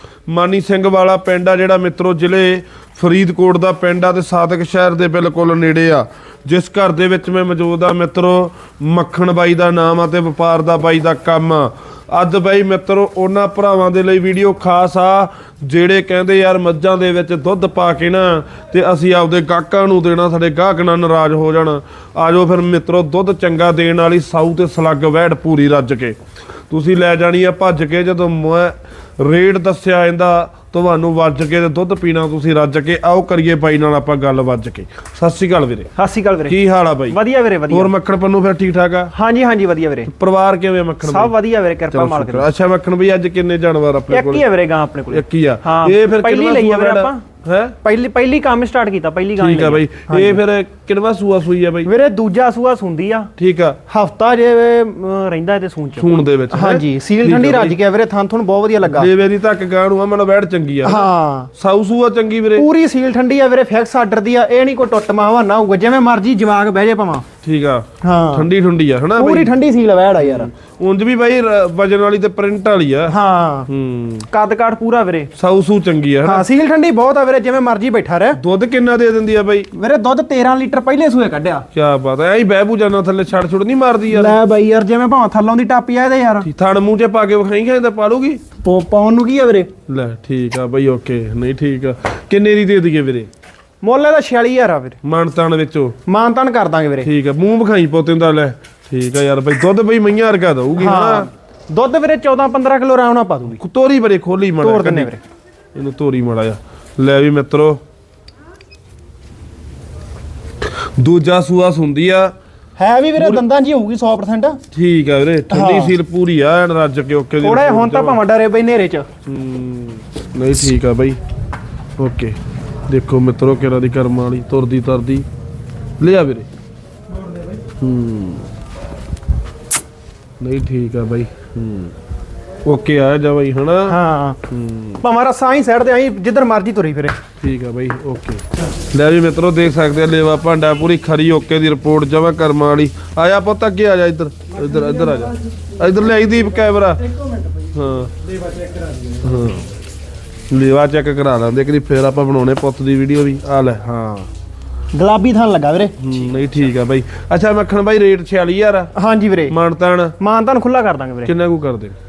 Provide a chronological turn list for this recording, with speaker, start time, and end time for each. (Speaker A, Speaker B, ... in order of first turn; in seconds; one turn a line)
Speaker A: 0.3-26.2
Speaker A: 26.7-35.9
Speaker B: 36.0-37.9
Speaker A: 36.5-37.2
Speaker A: 37.7-39.1
Speaker B: 39.1-40.1
Speaker A: 40.0-41.3
Speaker B: 41.0-42.5
Speaker A: 41.9-44.4
Speaker B: 44.1-47.2
Speaker A: 45.1-47.7
Speaker B: 47.8-50.4
Speaker A: 49.4-51.9
Speaker B: 51.8-53.3
Speaker A: 53.4-53.8
Speaker B: 53.9-59.1
Speaker A: 56.0-57.8
Speaker A: 58.8-61.0
Speaker B: 60.8-61.5
Speaker A: 61.6-62.7
Speaker B: 62.5-67.2
Speaker A: 67.4-69.5
Speaker B: 68.0-68.5
Speaker B: 69.2-70.5
Speaker A: 70.2-73.2
Speaker B: 73.1-73.7
Speaker A: 73.7-74.3
Speaker B: 74.3-75.3
Speaker A: 75.3-76.4
Speaker B: 76.2-78.4
Speaker A: 78.4-79.7
Speaker B: 79.7-81.6
Speaker A: 81.7-84.3
Speaker B: 84.1-86.5
Speaker A: 86.4-88.4
Speaker B: 88.6-89.7
Speaker A: 89.9-93.3
Speaker B: 93.8-95.0
Speaker A: 95.0-96.0
Speaker B: 96.0-97.1
Speaker A: 97.0-101.3
Speaker B: 100.8-103.6
Speaker A: 103.5-105.1
Speaker B: 104.6-105.2
Speaker A: 105.7-107.8
Speaker A: 111.0-112.3
Speaker B: 112.8-114.6
Speaker A: 113.2-113.4
Speaker A: 114.7-118.2
Speaker B: 115.5-115.9
Speaker B: 117.4-119.1
Speaker A: 119.2-121.2
Speaker A: 122.0-122.4
Speaker A: 122.9-125.3
Speaker A: 126.0-126.5
Speaker A: 127.8-128.5
Speaker A: 130.4-131.9
Speaker A: 132.6-134.0
Speaker B: 133.9-134.4
Speaker A: 134.5-135.0
Speaker B: 135.0-137.2
Speaker A: 137.4-147.0
Speaker A: 147.7-148.1
Speaker A: 149.2-149.7
Speaker A: 150.5-154.3
Speaker B: 154.9-155.9
Speaker A: 156.0-158.9
Speaker B: 158.9-159.6
Speaker A: 159.5-160.1
Speaker B: 160.2-161.3
Speaker A: 161.2-162.0